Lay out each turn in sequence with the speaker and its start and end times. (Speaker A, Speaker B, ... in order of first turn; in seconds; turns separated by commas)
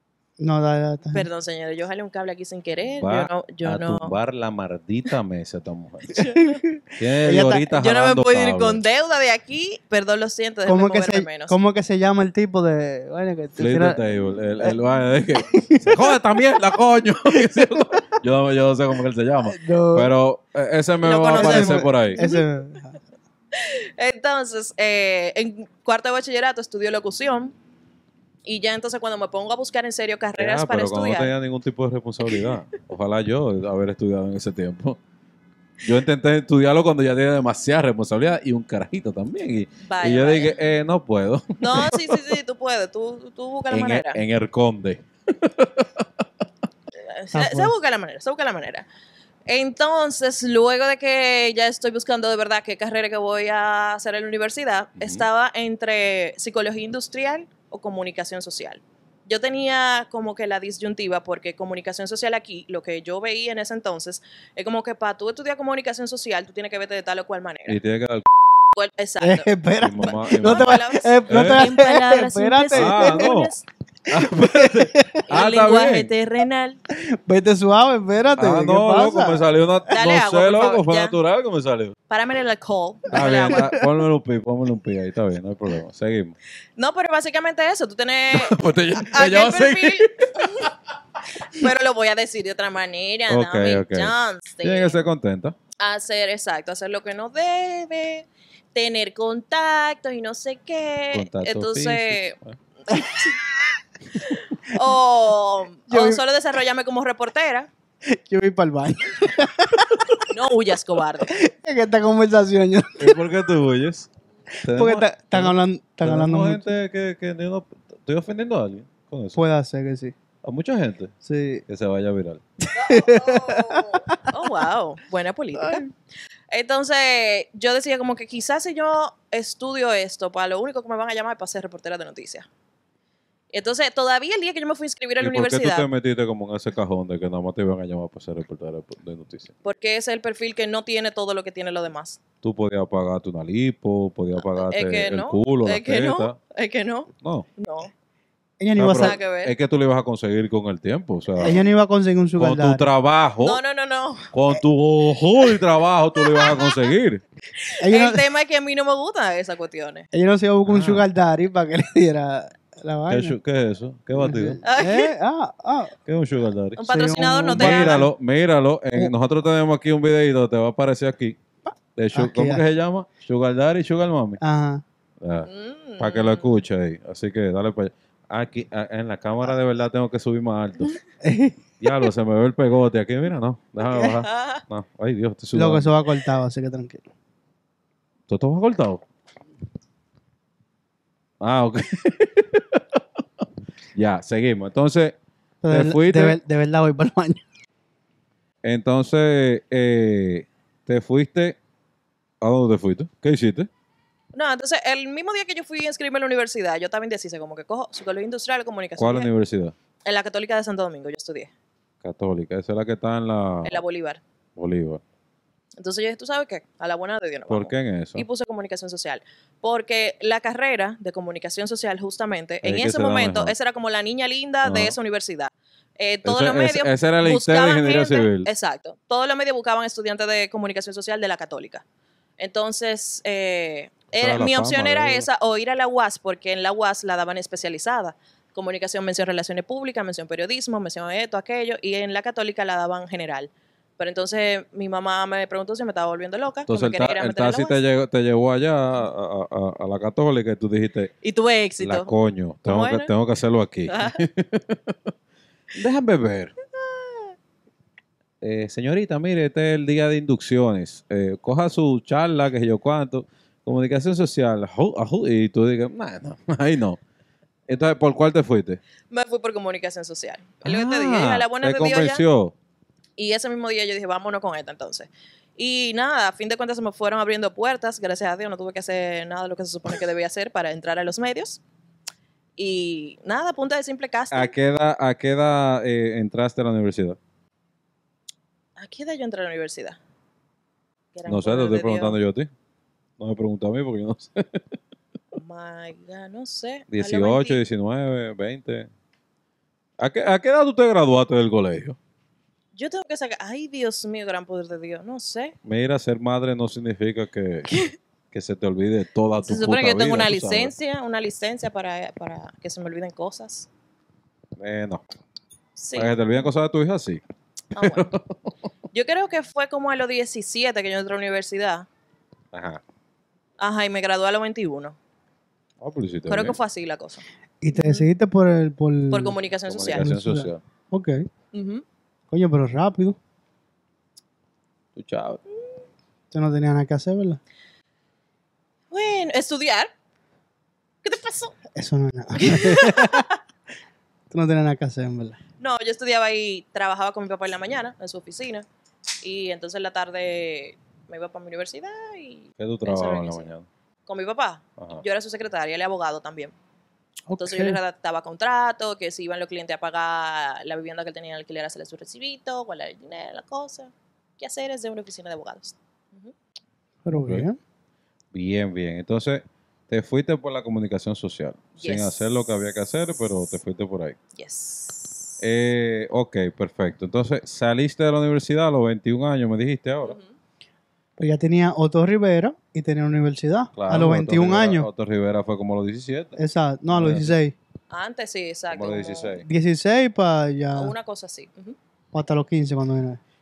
Speaker A: 0.4-1.3, Speaker B: 1.1-4.2, Speaker C: 2.9-6.3, Speaker B: 6.1-6.6, Speaker A: 6.2-7.7, Speaker C: 7.0-8.8, Speaker B: 7.7-11.6, Speaker A: 10.7-14.0, Speaker C: 13.5-22.2, Speaker A: 15.3-16.1, Speaker A: 17.5-18.0, Speaker A: 19.4-20.1, Speaker B: 21.0-22.4, Speaker A: 21.3-23.0, Speaker B: 23.5-27.5, Speaker B: 28.4-31.3, Speaker C: 30.4-35.0, Speaker C: 35.8-42.2, Speaker B: 39.8-40.5, Speaker B: 41.6-44.2, Speaker C: 43.7-46.1, Speaker B: 47.0-48.9, Speaker A: 47.3-47.7, Speaker B: 49.5-67.8, Speaker C: 55.0-55.2, Speaker C: 67.7-68.3, Speaker B: 68.7-69.5, Speaker A: 69.2-73.4, Speaker C: 69.8-71.7, Speaker B: 70.0-73.6, Speaker C: 72.7-73.5, Speaker C: 74.1-76.1, Speaker A: 74.1-75.2, Speaker B: 75.3-76.8, Speaker A: 76.9-79.5, Speaker C: 78.3-81.9, Speaker B: 79.9-81.2, Speaker B: 82.1-83.7, Speaker C: 83.1-86.3, Speaker A: 83.2-83.8, Speaker B: 86.8-90.7, Speaker C: 88.3-90.7, Speaker B: 91.4-95.0, Speaker C: 93.3-95.5, Speaker B: 95.8-102.3, Speaker C: 101.1-102.6, Speaker B: 102.9-103.3, Speaker B: 104.2-107.7, Speaker A: 105.9-106.2, Speaker A: 108.1-110.2, Speaker B: 110.3-111.3, Speaker A: 111.3-113.2, Speaker C: 113.0-114.1, Speaker A: 114.6-116.7, Speaker C: 114.6-119.4, Speaker A: 119.3-120.1, Speaker C: 120.4-121.1, Speaker A: 121.2-121.6, Speaker C: 121.7-122.4, Speaker A: 122.7-124.3, Speaker B: 122.7-125.9, Speaker A: 125.6-125.9, Speaker B: 126.5-132.5, Speaker B: 133.5-135.9, Speaker C: 135.2-139.5, Speaker B: 139.6-142.2, Speaker C: 142.4-146.4, Speaker B: 144.4-147.9, Speaker C: 147.2-147.5, Speaker A: 148.6-149.2, Speaker C: 148.8-151.6, Speaker B: 148.8-149.5, Speaker A: 151.4-152.9, Speaker C: 152.4-153.6, Speaker B: 153.4-154.3, Speaker C: 154.3-157.2, Speaker B: 156.2-156.9, Speaker B: 157.6-160.1, Speaker A: 157.8-158.2, Speaker A: 160.1-163.3, Speaker C: 160.6-161.1, Speaker C: 163.1-164.6, Speaker A: 164.2-165.9, Speaker B: 164.6-165.1, Speaker C: 166.1-166.9, Speaker B: 166.8-168.1, Speaker A: 166.9-168.1, Speaker C: 167.5-171.4, Speaker C: 171.9-174.4, Speaker A: 172.1-172.6, Speaker A: 174.4-174.8, Speaker C: 175.2-175.5, Speaker B: 175.4-176.6, Speaker C: 176.0-180.9, Speaker A: 181.2-181.6, Speaker C: 181.8-185.9, Speaker B: 183.9-184.6, Speaker A: 185.5-187.0, Speaker C: 188.3-189.0, Speaker C: 191.4-193.4, Speaker C: 193.9-195.1, Speaker A: 195.6-197.4, Speaker C: 195.7-196.4, Speaker C: 198.6-201.6, Speaker C: 202.4-203.7, Speaker B: 204.3-209.3, Speaker C: 209.0-209.7, Speaker B: 210.0-211.5, Speaker C: 212.0-213.8, Speaker B: 213.6-214.2, Speaker C: 214.6-215.0, Speaker B: 215.8-231.8, Speaker C: 217.5-218.2, Speaker C: 222.6-223.5, Speaker C: 224.6-225.0, Speaker C: 226.2-228.5, Speaker B: 232.4-247.8, Speaker C: 234.2-235.3, Speaker C: 246.7-251.1, Speaker B: 251.2-252.1, Speaker C: 251.8-255.1, Speaker B: 252.7-253.1, Speaker B: 253.9-254.2, Speaker C: 255.7-256.5, Speaker B: 257.0-257.3, Speaker C: 258.4-267.0, Speaker C: 267.7-268.8, Speaker B: 269.1-272.2, Speaker C: 270.6-272.5, Speaker B: 273.2-281.6, Speaker B: 282.6-284.5, Speaker C: 284.3-287.2, Speaker B: 288.8-290.0, Speaker B: 291.1-292.2, Speaker C: 291.3-292.5, Speaker C: 293.2-294.6, Speaker B: 295.3-297.6, Speaker C: 296.9-298.9, Speaker C: 300.0-302.0, Speaker B: 302.7-305.5, Speaker C: 305.6-307.7, Speaker B: 307.7-307.9, Speaker C: 308.3-310.7, Speaker B: 309.4-313.7, Speaker C: 314.6-315.0, Speaker B: 315.8-316.1, Speaker C: 315.9-317.2, Speaker B: 317.7-318.1, Speaker C: 317.8-318.3, Speaker B: 318.9-321.9, Speaker C: 322.5-322.8, Speaker B: 323.6-324.9, Speaker C: 325.8-326.6, Speaker B: 326.3-328.1, Speaker A: 327.6-329.4, Speaker B: 329.1-330.1, Speaker C: 329.7-330.6, Speaker A: 329.9-331.3, Speaker B: 331.5-331.8, Speaker A: 332.3-333.2, Speaker C: 334.9-335.4, Speaker A: 336.3-337.4, Speaker B: 338.9-339.9, Speaker B: 341.0-341.5, Speaker A: 341.7-343.3, Speaker B: 342.4-343.4, Speaker A: 344.3-345.4, Speaker B: 345.6-348.7, Speaker B: 349.2-353.5, Speaker C: 352.6-353.6, Speaker B: 354.1-356.5, Speaker A: 357.3-357.8, Speaker B: 357.4-366.3, Speaker A: 367.0-367.6, Speaker C: 367.1-367.5, Speaker C: 368.3-374.2, Speaker B: 371.8-372.6, Speaker B: 374.4-375.4, Speaker C: 375.4-380.2, Speaker B: 380.0-380.3, Speaker A: 381.2-384.9, Speaker C: 383.7-386.4, Speaker A: 386.4-387.5, Speaker C: 386.9-387.4, Speaker B: 387.9-389.4, Speaker C: 388.7-389.4, Speaker A: 389.4-390.9, Speaker B: 390.7-391.8, Speaker A: 392.1-393.2